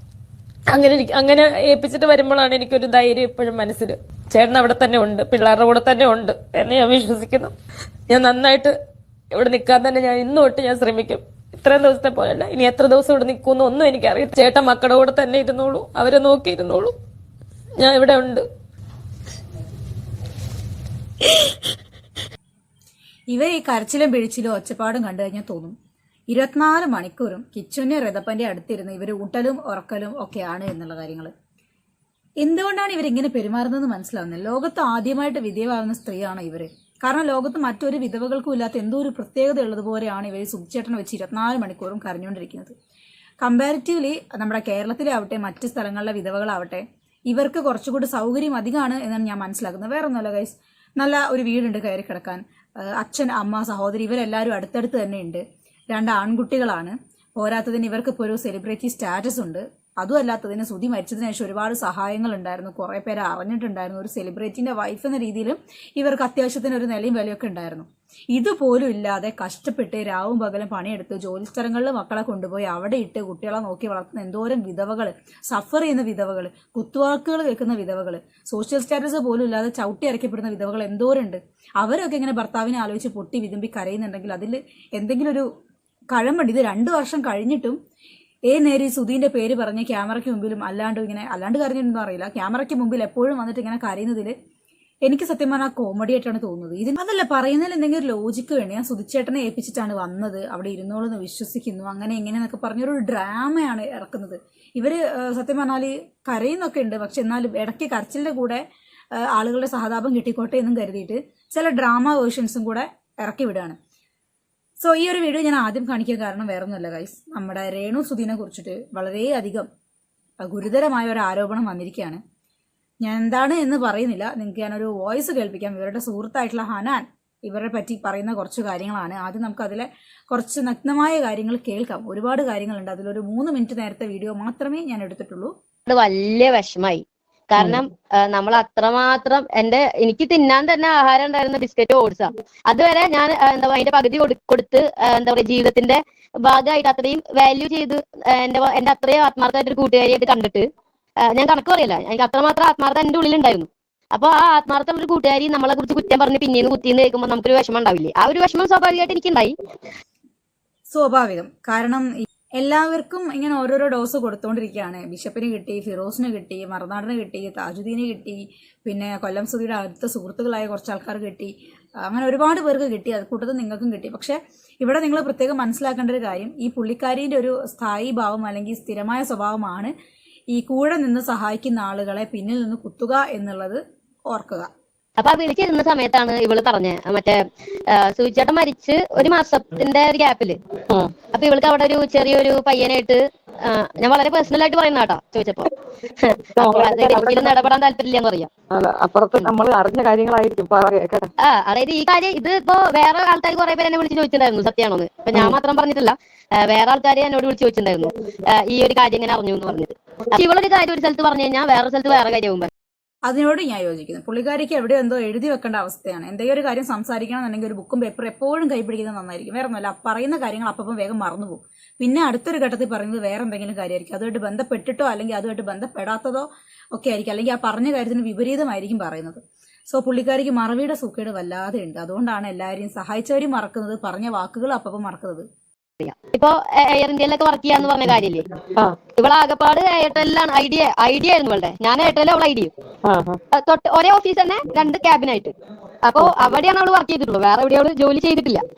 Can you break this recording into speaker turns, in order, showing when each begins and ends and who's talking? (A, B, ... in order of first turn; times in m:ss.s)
0:00.7-0:07.6 A
0:08.1-0:08.8 A
0:09.3-0:17.0 A
0:17.8-0:18.4 A
0:23.3-0:25.8 B
0:26.3-0:31.3 B
0:32.4-0:42.7 B
0:43.4-1:25.5 B
1:26.1-1:27.8 B
1:28.5-1:34.3 B
1:35.0-1:48.6 B
1:49.2-1:53.8 B
1:54.8-1:59.7 B
2:00.4-2:02.2 B
2:03.0-2:15.5 B
2:15.9-2:30.7 C
2:31.3-2:39.6 C
2:40.9-2:59.9 B
3:00.5-3:04.7 B
3:05.2-3:10.6 C
3:11.3-3:18.5 C
3:16.6-3:17.6 D
3:18.7-3:21.3 D
3:21.4-3:32.7 C
3:33.3-3:55.5 B
3:56.0-3:58.5 C
3:59.2-4:02.7 C
4:03.0-4:03.4 D
4:03.5-4:05.5 C
4:06.1-4:08.6 C